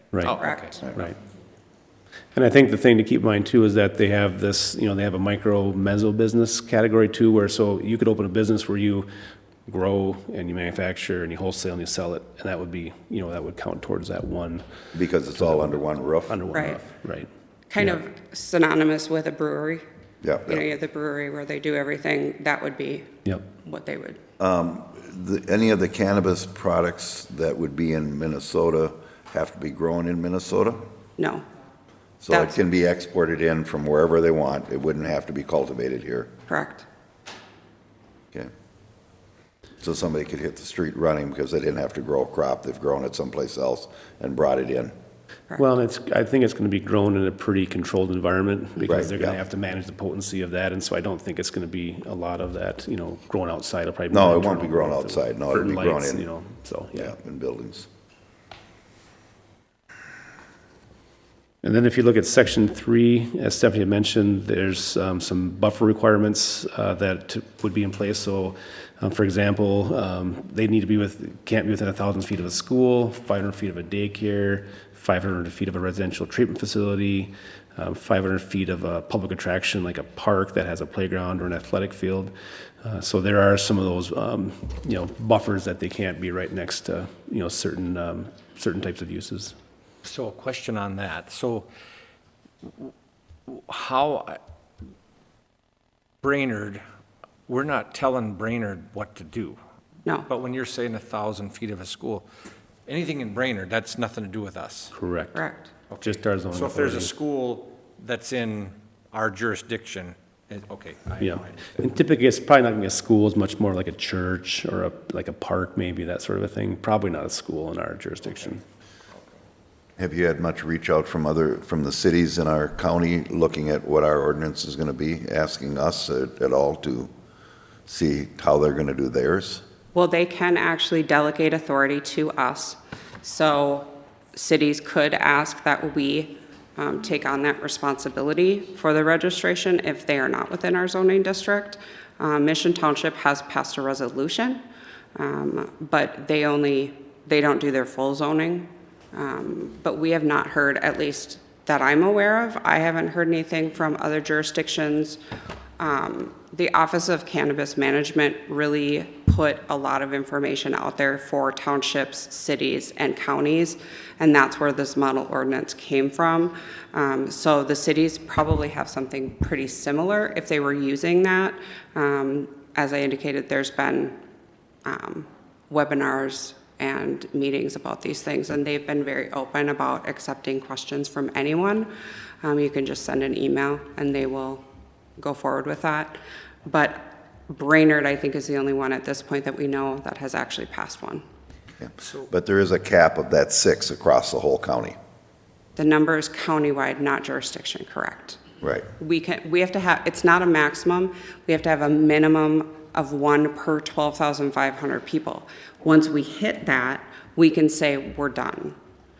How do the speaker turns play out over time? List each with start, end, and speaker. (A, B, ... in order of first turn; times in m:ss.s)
0:00.2-0:00.7 A
0:00.4-0:00.8 B
0:02.3-0:09.1 C
0:09.6-0:14.6 C
0:14.9-0:16.4 D
0:15.4-0:15.7 C
0:16.3-0:17.8 C
0:16.5-0:16.8 B
0:17.7-0:19.8 B
0:20.2-0:20.6 D
0:20.5-0:24.2 B
0:24.4-0:30.9 D
0:31.2-0:31.4 B
0:32.2-0:36.3 D
0:32.3-0:32.6 B
0:36.5-0:36.8 B
0:39.8-0:44.9 D
0:45.6-0:57.1 C
0:48.8-0:49.4 D
0:54.1-0:56.2 D
0:56.9-0:57.9 D
1:01.6-1:29.6 C
1:30.0-1:31.7 A
1:33.5-1:34.4 A
1:36.2-1:36.8 A
1:37.5-1:39.6 A
1:40.3-1:42.2 A
1:42.9-1:44.9 A
1:44.9-1:45.4 C
1:45.3-1:45.7 B
1:45.9-1:51.8 A
1:46.0-1:47.1 C
1:51.2-1:58.3 C
2:00.0-2:07.1 D
2:07.9-2:09.6 D
2:09.9-2:24.6 B
2:25.2-2:35.2 B
2:35.8-2:54.2 B
2:54.8-3:01.9 B
3:02.4-3:04.6 B
3:05.2-3:11.2 B
3:11.8-3:15.0 D
3:15.8-3:18.4 B
3:18.6-3:18.9 D
3:19.0-3:28.8 B